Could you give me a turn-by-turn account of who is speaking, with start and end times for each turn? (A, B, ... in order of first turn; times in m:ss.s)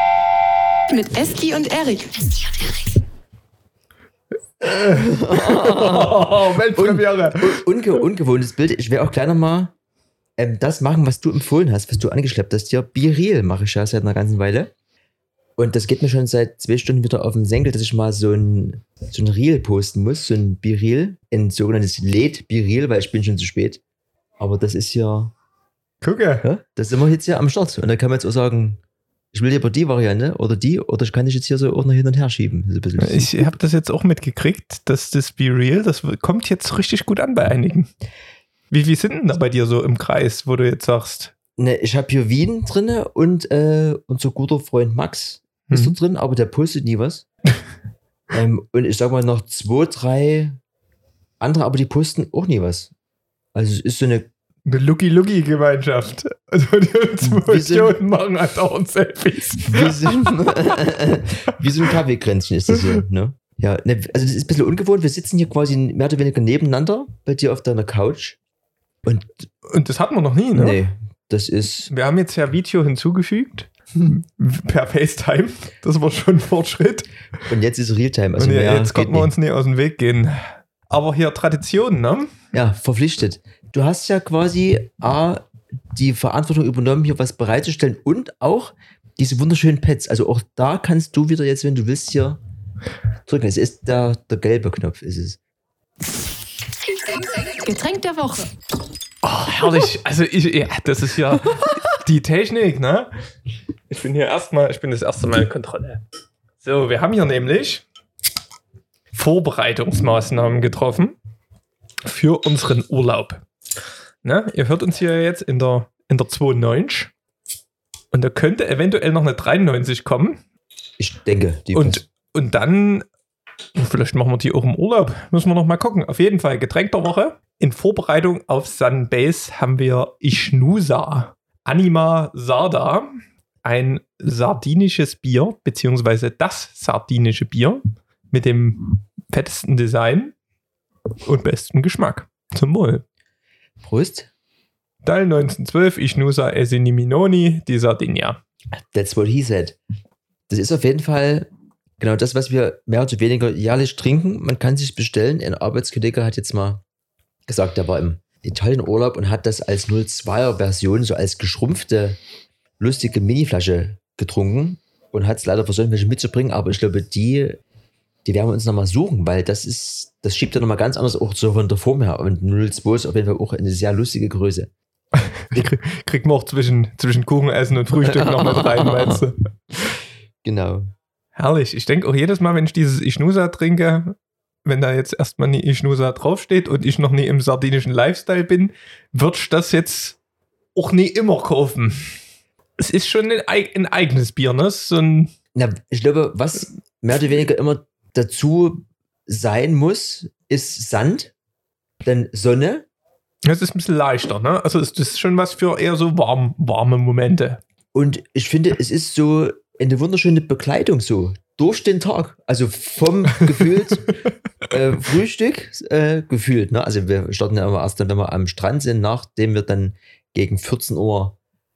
0:00.9-0:02.6 A
0:04.6-0:07.6 B
0:04.8-0:09.7 C
0:10.4-0:14.7 C
0:15.6-0:23.8 C
0:24.4-0:25.3 C
0:26.0-0:26.4 B
0:26.4-0:28.8 C
0:29.3-0:33.5 C
0:33.0-0:37.9 B
0:38.7-0:41.3 B
0:41.6-0:47.3 C
0:45.7-0:46.0 B
0:48.3-0:50.6 C
0:51.4-0:52.9 C
0:53.5-0:54.3 C
0:54.7-1:00.5 B
0:57.2-0:58.0 C
0:59.6-1:08.4 C
1:09.0-1:09.4 C
1:09.7-1:10.8 B
1:10.5-1:11.9 C
1:11.9-1:17.1 B
1:17.5-1:19.3 C
1:18.4-1:22.3 B
1:22.5-1:32.4 C
1:33.3-1:35.4 C
1:37.6-1:38.5 A
1:39.2-1:43.1 B
1:43.9-1:46.0 B
1:46.6-1:47.8 B
1:49.1-1:51.2 B
1:52.0-1:53.4 B
1:54.2-1:57.1 B
1:58.1-2:00.4 B
2:01.0-2:02.0 C
2:01.7-2:03.0 B
2:03.8-2:13.1 B
2:13.6-2:20.3 B
2:21.2-2:23.0 B
2:23.8-2:24.3 C
2:25.0-2:28.4 B
2:28.9-2:29.8 C
2:30.5-2:36.8 C
2:37.5-2:42.2 C
2:42.8-2:47.6 C
2:48.2-2:54.7 C
2:55.5-2:59.3 B
2:58.0-2:59.2 C
3:00.4-3:00.9 C
3:01.4-3:10.2 B
3:10.8-3:12.1 B
3:12.8-3:15.3 B
3:15.5-3:21.3 C
3:22.0-3:22.8 C
3:23.4-3:27.6 B
3:27.9-3:34.1 C
3:34.7-3:41.4 C